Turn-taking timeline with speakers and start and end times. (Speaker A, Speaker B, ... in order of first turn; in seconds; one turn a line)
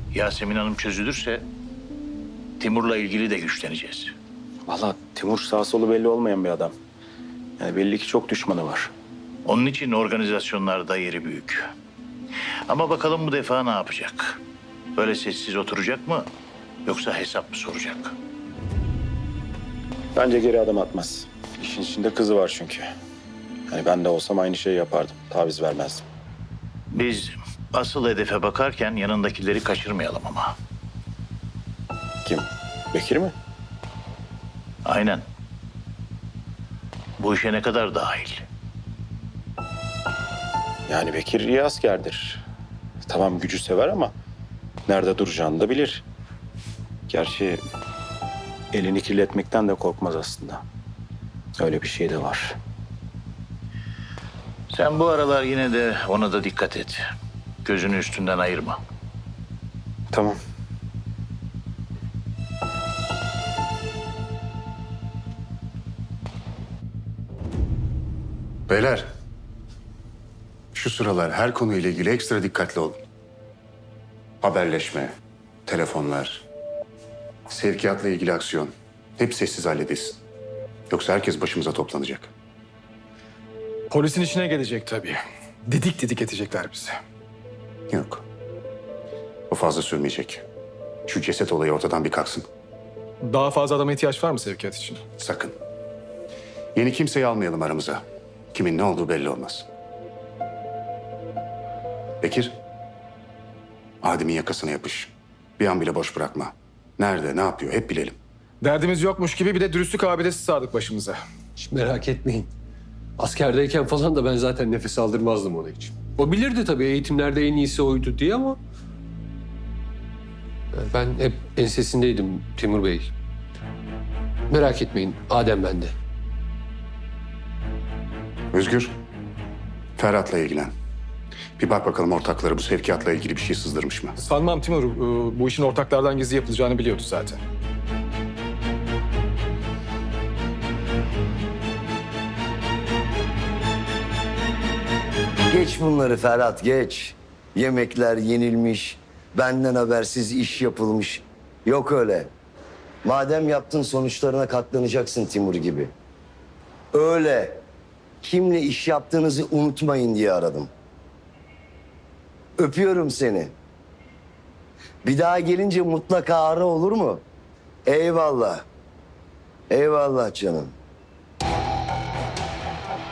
Speaker A: 0.1-1.5
Speaker A: 2.6-4.1
Speaker B: 4.7-6.7
Speaker B: 7.6-8.9
Speaker A: 9.5-11.6
Speaker A: 12.7-14.4
Speaker A: 15.0-16.3
Speaker A: 16.9-18.1
Speaker B: 20.1-22.9
Speaker B: 23.7-26.1
Speaker A: 26.9-30.5
Speaker B: 32.2-33.4
Speaker A: 34.9-35.2
Speaker A: 37.2-38.4
Speaker B: 40.9-42.4
Speaker B: 43.0-44.1
Speaker B: 44.9-46.0
Speaker B: 47.1-47.6
Speaker B: 48.7-50.6
Speaker B: 51.6-52.6
Speaker A: 54.7-57.0
Speaker A: 57.6-58.8
Speaker B: 60.1-60.4
Speaker C: 68.7-69.1
Speaker C: 70.7-73.0
Speaker C: 74.4-75.1
Speaker C: 75.7-76.4
Speaker C: 77.5-80.2
Speaker C: 80.9-82.3
Speaker D: 83.9-86.9
Speaker C: 87.9-88.2
Speaker C: 89.5-90.4
Speaker C: 91.1-92.5
Speaker D: 93.2-95.0
Speaker C: 95.2-95.5
Speaker C: 96.8-98.0
Speaker C: 98.5-99.7
Speaker C: 102.2-102.6
Speaker C: 104.0-108.2
Speaker D: 108.6-111.2
Speaker E: 111.6-112.5
Speaker E: 113.2-118.6
Speaker E: 120.8-123.1
Speaker E: 124.5-125.9
Speaker C: 128.5-128.9
Speaker C: 130.0-130.7
Speaker C: 131.6-134.2
Speaker D: 134.2-137.4
Speaker F: 145.5-152.3
Speaker F: 153.0-155.9
Speaker F: 156.9-157.6
Speaker F: 158.2-160.7
Speaker F: 162.6-163.5
Speaker F: 165.0-167.2
Speaker F: 167.9-168.7
Speaker F: 169.7-170.7